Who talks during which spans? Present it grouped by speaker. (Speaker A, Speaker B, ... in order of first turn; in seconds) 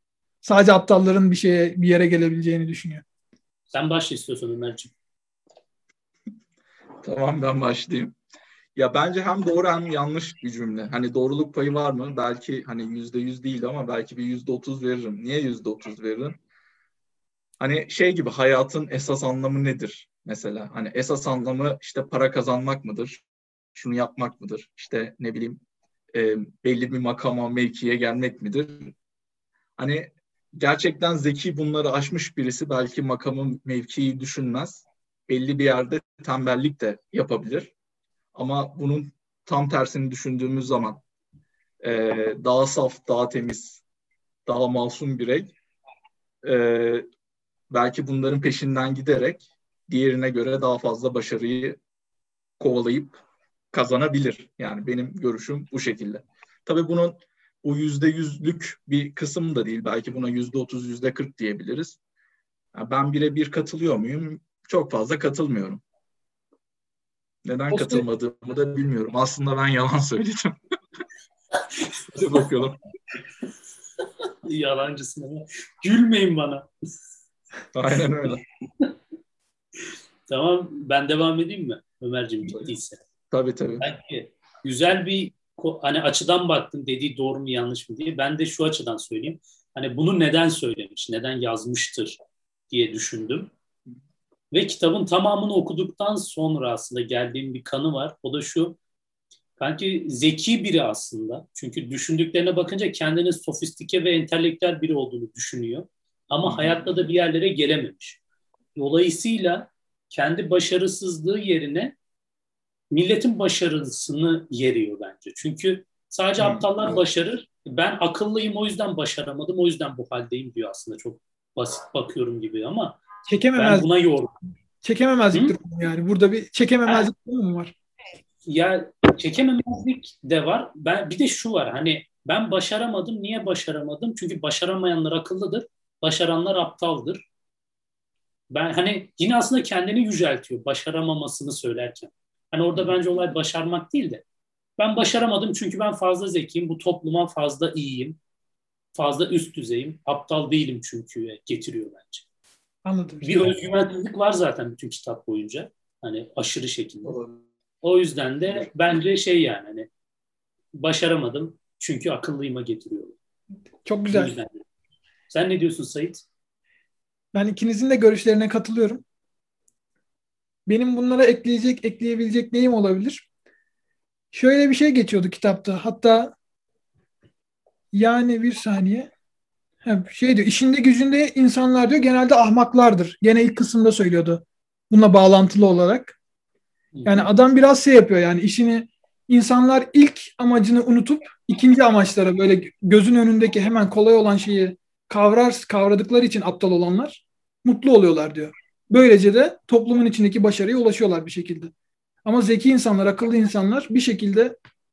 Speaker A: 0.4-3.0, 67.7-68.0, 123.3-123.9, 124.8-127.7, 152.8-153.5, 163.8-164.3, 167.3-169.0, 170.7-173.2, 174.3-176.3, 177.9-179.1, 179.8-186.2, 187.1-201.7, 202.2-204.6
Speaker B: 3.7-4.9, 74.5-76.7, 80.3-83.0, 83.8-92.2, 92.7-93.5, 94.5-98.8, 99.6-108.2, 108.8-112.0, 112.9-123.0, 123.5-124.3, 128.4-137.2, 138.5-144.2, 144.8-148.2, 148.9-152.2, 153.2-157.2, 157.8-159.9, 160.8-163.2, 164.1-164.6, 165.3-166.2, 186.9-187.3
Speaker C: 7.0-8.2, 8.7-16.4, 17.6-23.2, 23.7-25.6, 26.1-28.9, 29.8-37.7, 38.3-41.0, 41.8-43.8, 44.5-45.5, 46.4-47.1, 47.7-51.8, 52.6-62.0, 62.7-65.8, 67.4-70.6, 72.1-72.8, 77.7-78.4, 82.5-82.7, 83.3-83.8, 106.4-107.0, 116.4-116.9, 157.0-157.4